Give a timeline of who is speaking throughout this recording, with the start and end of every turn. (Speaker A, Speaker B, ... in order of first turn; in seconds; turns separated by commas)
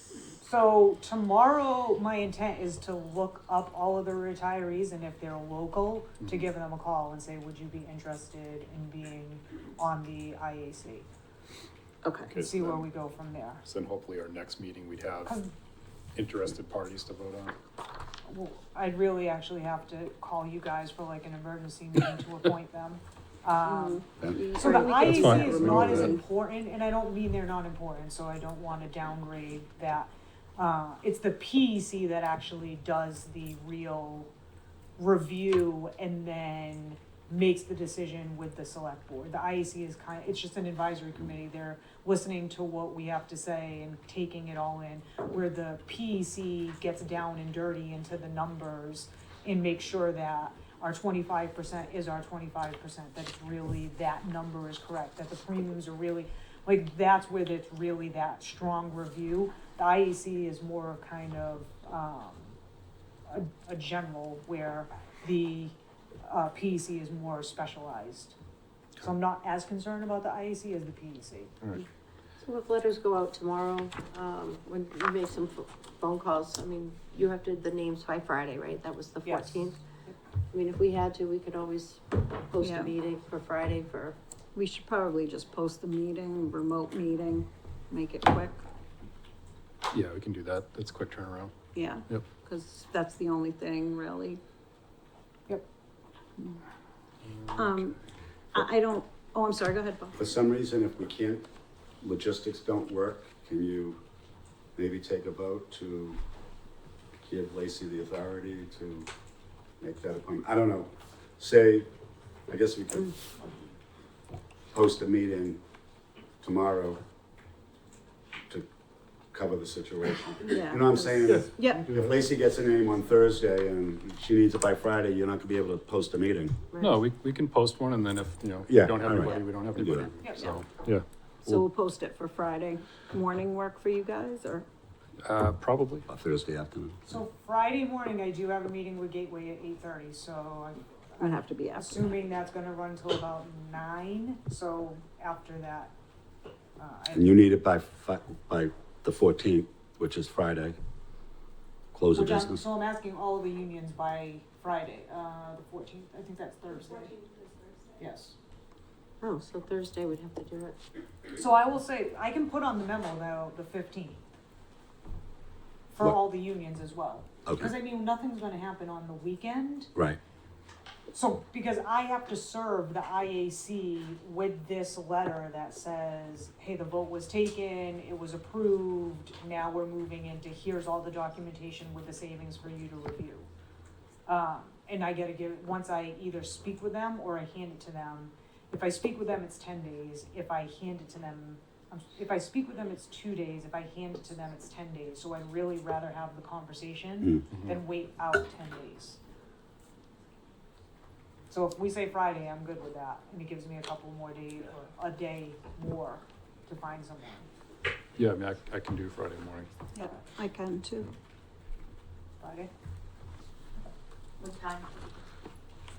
Speaker A: 0.4-11.1, Speaker B: 12.0-12.3, Speaker C: 12.3-12.9, Speaker A: 12.4-13.6, Speaker C: 13.7-15.3, Speaker A: 15.3-15.5, Speaker C: 16.1-17.6, Speaker A: 18.3-34.3, Speaker B: 23.6-26.2, Speaker D: 24.2-24.6, Speaker C: 25.1-26.1, Speaker A: 35.0-62.6, Speaker A: 63.3-68.4, Speaker A: 69.0-71.5, Speaker E: 72.4-79.8, Speaker A: 79.2-80.2, Speaker E: 80.5-84.2, Speaker B: 82.6-82.9, Speaker B: 84.5-88.6, Speaker C: 89.9-91.5, Speaker B: 91.7-94.4, Speaker B: 97.5-98.0, Speaker B: 98.5-100.2, Speaker D: 100.2-101.5, Speaker D: 102.0-104.0, Speaker D: 104.8-106.2, Speaker D: 107.2-109.1, Speaker D: 109.8-111.9, Speaker D: 112.5-113.2, Speaker D: 114.7-115.6, Speaker D: 116.4-117.0, Speaker D: 119.3-126.6, Speaker B: 120.4-121.9, Speaker C: 121.3-122.1, Speaker C: 126.8-131.6, Speaker D: 128.7-130.1, Speaker B: 130.3-130.6, Speaker B: 131.4-134.7, Speaker C: 135.2-136.1, Speaker D: 136.1-137.1, Speaker A: 137.1-145.9, Speaker B: 141.2-142.1, Speaker A: 146.8-147.5, Speaker D: 147.1-150.8, Speaker D: 151.9-152.6, Speaker A: 152.1-157.3, Speaker A: 158.0-158.3, Speaker E: 159.2-160.8, Speaker A: 161.3-164.2, Speaker A: 165.9-169.9, Speaker D: 167.5-167.7, Speaker A: 171.1-183.5, Speaker A: 184.3-199.2, Speaker A: 201.5-207.5, Speaker C: 208.2-209.7, Speaker B: 209.9-211.1, Speaker A: 212.4-212.7, Speaker E: 214.4-214.9